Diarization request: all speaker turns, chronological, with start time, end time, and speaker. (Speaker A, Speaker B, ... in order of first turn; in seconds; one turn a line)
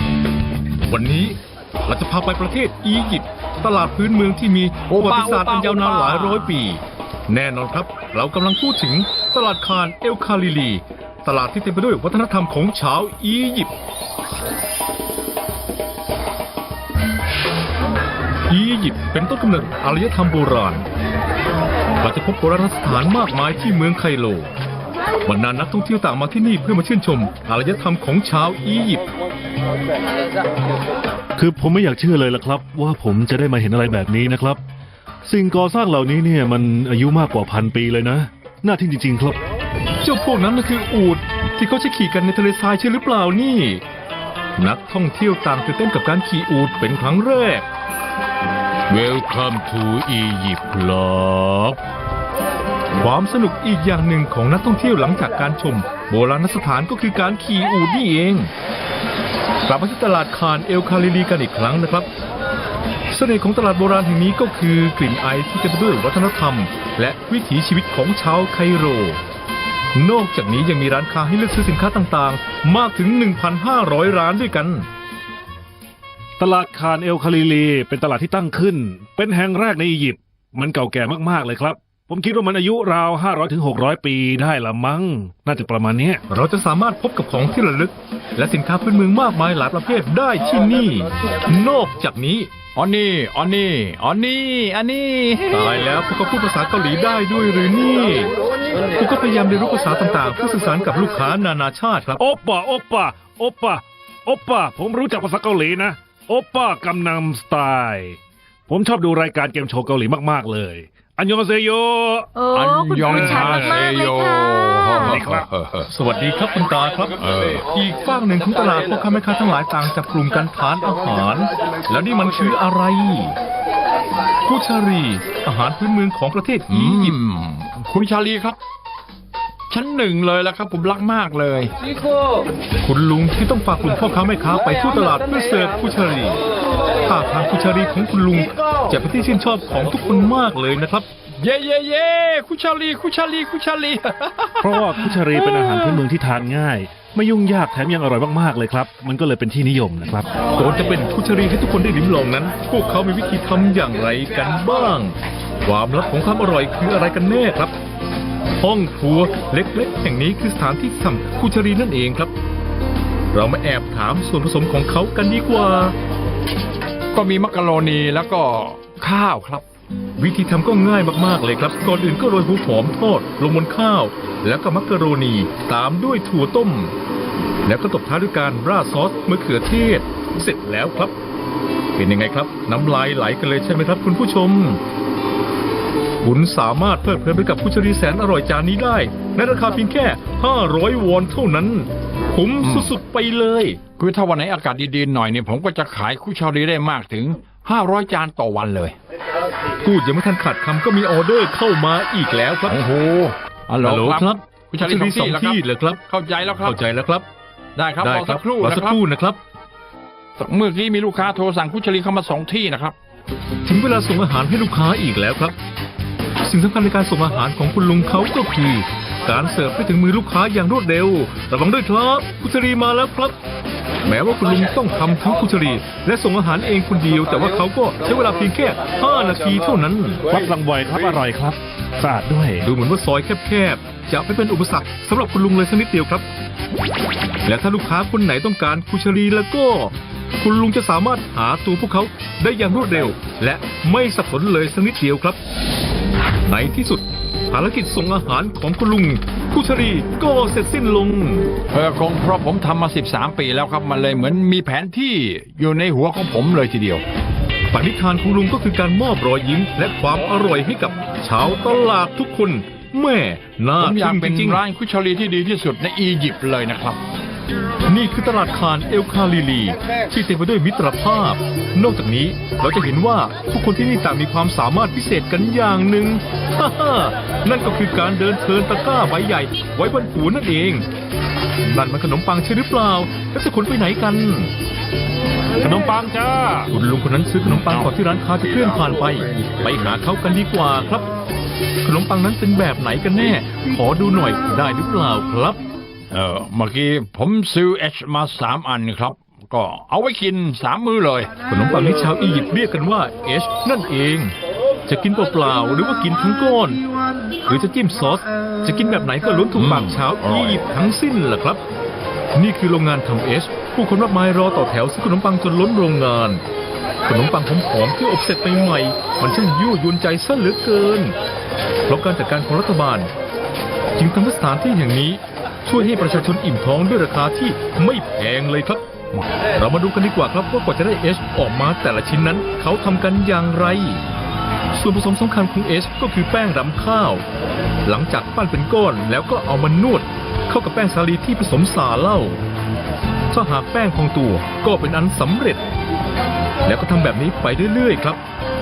Speaker A: 0.9-13.7
Speaker B: 4.9-6.6
Speaker A: 18.5-20.9
Speaker A: 22.0-24.5
Speaker A: 25.2-29.1
Speaker C: 31.4-34.6
Speaker C: 35.2-39.4
Speaker A: 40.0-43.8
Speaker A: 44.6-47.7
Speaker A: 48.9-51.8
Speaker A: 53.0-58.5
Speaker A: 59.7-62.1
Speaker A: 63.1-69.2
Speaker A: 69.9-74.9
Speaker C: 76.4-86.2
Speaker A: 86.3-92.5
Speaker B: 92.8-95.7
Speaker A: 95.5-98.3
Speaker A: 99.0-102.2
Speaker C: 102.2-112.3
Speaker D: 112.4-115.1
Speaker B: 112.5-115.9
Speaker C: 113.0-113.9
Speaker C: 115.0-115.5
Speaker A: 115.9-117.2
Speaker B: 117.2-117.7
Speaker A: 117.7-123.4
Speaker A: 124.5-127.2
Speaker B: 126.7-128.6
Speaker B: 129.7-131.7
Speaker A: 132.8-136.4
Speaker A: 137.1-141.1
Speaker B: 141.4-146.0
Speaker C: 144.6-150.3
Speaker A: 150.6-157.7
Speaker A: 158.6-162.3
Speaker A: 163.3-165.9
Speaker B: 167.1-169.7
Speaker A: 170.2-176.9
Speaker A: 177.6-181.1
Speaker A: 182.0-184.8
Speaker A: 186.2-193.8
Speaker B: 192.6-192.9
Speaker B: 194.0-198.9
Speaker A: 199.8-202.8
Speaker B: 202.7-206.8
Speaker A: 203.8-206.0
Speaker A: 206.6-207.3
Speaker B: 207.8-209.0
Speaker A: 208.0-209.4
Speaker B: 210.4-213.0
Speaker A: 213.7-215.6
Speaker A: 216.4-223.4
Speaker A: 224.1-230.3
Speaker C: 230.3-232.7
Speaker A: 232.6-236.2
Speaker A: 237.4-245.4
Speaker A: 246.4-251.5
Speaker B: 251.7-257.0
Speaker A: 257.7-264.6
Speaker B: 263.8-267.0
Speaker A: 267.9-280.9
Speaker A: 281.6-284.5
Speaker C: 285.6-286.7
Speaker A: 286.7-291.1
Speaker B: 287.4-287.9
Speaker A: 291.8-295.6
Speaker B: 296.1-301.3
Speaker A: 301.5-304.3
Speaker A: 304.9-306.8
Speaker A: 307.4-311.6
Speaker B: 309.6-310.6
Speaker A: 312.4-316.4
Speaker A: 317.1-321.1
Speaker A: 321.9-323.1
Speaker A: 324.0-328.9
Speaker A: 329.5-334.0
Speaker A: 334.7-337.2
Speaker A: 337.9-342.4
Speaker A: 343.3-345.6
Speaker A: 346.6-348.2